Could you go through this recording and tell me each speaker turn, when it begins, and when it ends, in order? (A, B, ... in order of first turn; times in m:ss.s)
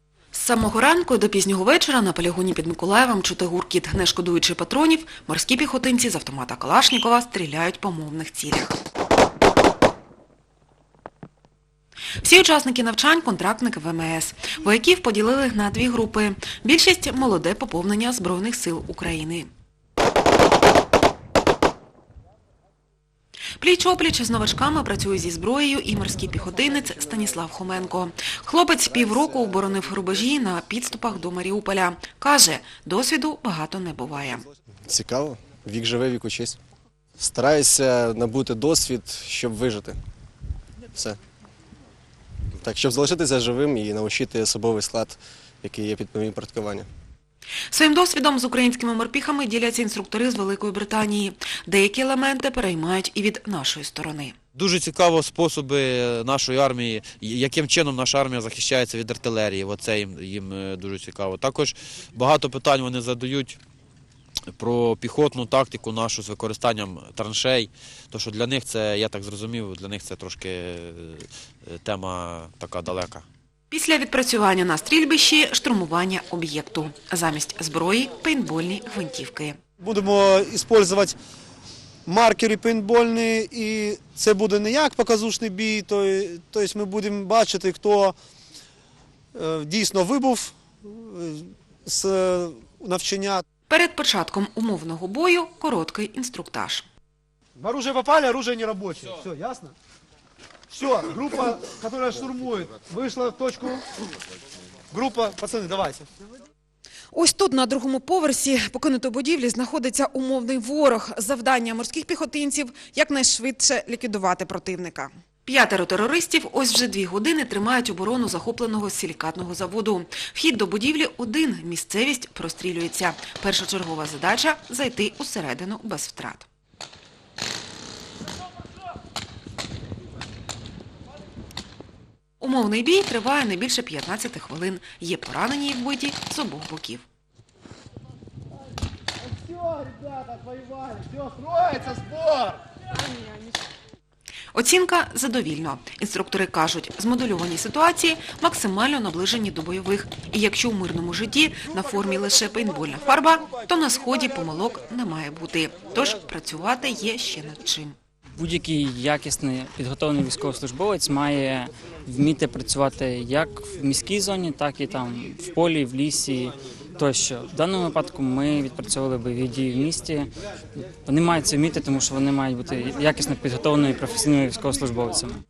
0:00.3-0:08.8 A
0:12.2-0:19.5 A
0:23.6-0:34.5 A
0:34.9-0:36.6 B
0:37.2-0:40.0 B
0:42.7-0:46.8 B
0:47.7-0:54.4 A
0:54.6-1:03.6 C
1:04.6-1:13.2 C
1:13.7-1:19.6 A
1:19.8-1:21.2 D
1:22.1-1:28.1 D
1:29.4-1:33.4 D
1:33.7-1:36.9 A
1:37.6-1:39.8 D
1:40.7-1:43.8 D
1:44.9-1:46.0 D
1:47.1-2:06.5 A
2:12.4-2:17.0 A
2:24.5-2:38.0 A
2:38.4-2:50.3 E
2:51.1-2:55.3 E